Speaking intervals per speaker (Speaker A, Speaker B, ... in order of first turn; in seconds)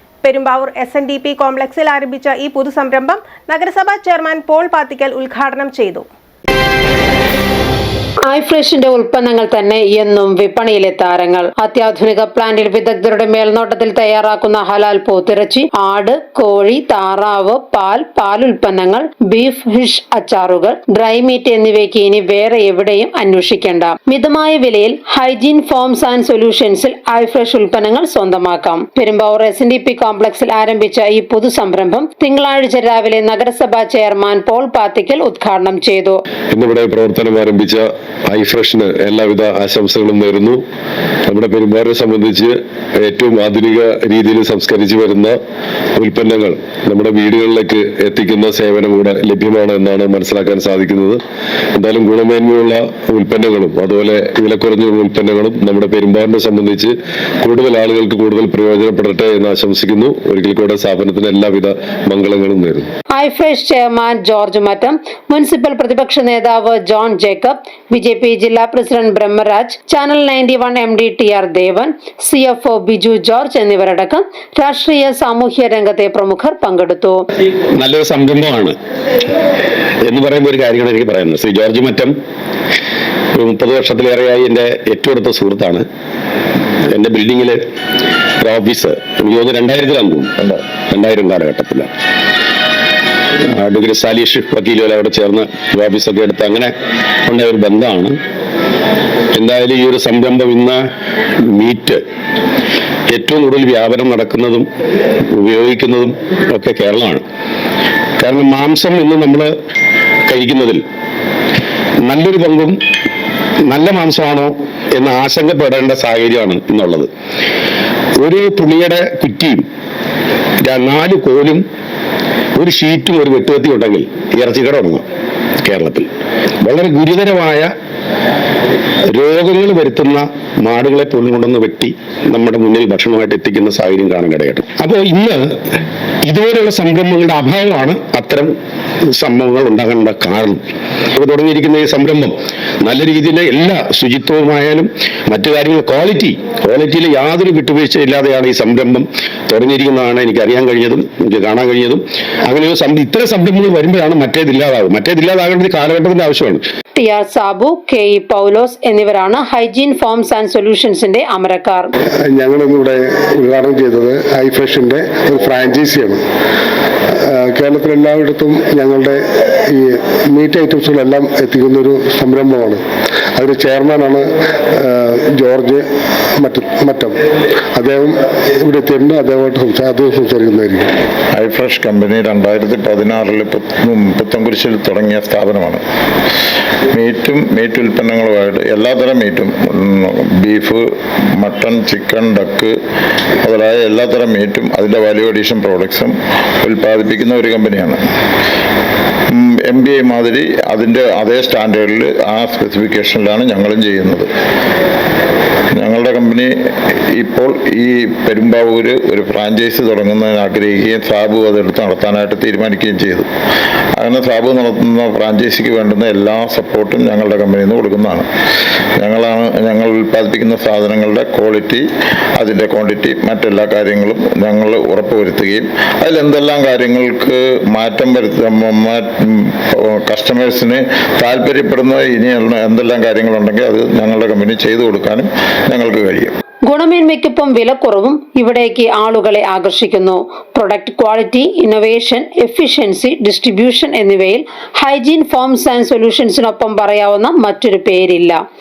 Speaker A: 0.2-6.0
Speaker B: 8.3-36.2, 63.1-77.2, 156.9-161.9, 236.7-248.4
Speaker C: 36.5-37.8, 38.4-40.5, 41.4-42.3, 43.1-45.1, 47.1-51.1, 53.3-54.6, 55.7-56.8, 57.6-62.8
Speaker D: 41.3-44.2, 44.7-45.4, 46.0-47.8, 49.2-50.1, 50.7-51.2, 51.7-56.9, 57.4-57.7, 59.9-61.2, 77.7-78.8, 80.0-82.1, 83.3-85.8, 86.9-87.6, 88.4-90.3, 90.9-91.9, 93.4-96.7, 97.3-98.1, 99.3-100.8, 101.4-102.0, 103.1-104.7, 105.3-107.2, 108.2-109.5, 110.3-110.8, 112.0-112.8, 113.7-117.1, 118.2-119.6, 120.6-121.6, 122.5-125.0, 125.6-126.1, 126.6-127.7, 129.1-135.6, 136.2-138.5, 139.1-140.6, 141.1-156.6
Speaker E: 162.2-166.2, 167.2-172.8, 173.3-175.8, 176.4-177.1, 177.7-180.9
Speaker F: 181.3-185.8, 186.9-192.7, 193.4-198.0, 199.3-204.3, 205.7-213.3, 214.0-218.3, 219.0-221.9, 222.4-236.3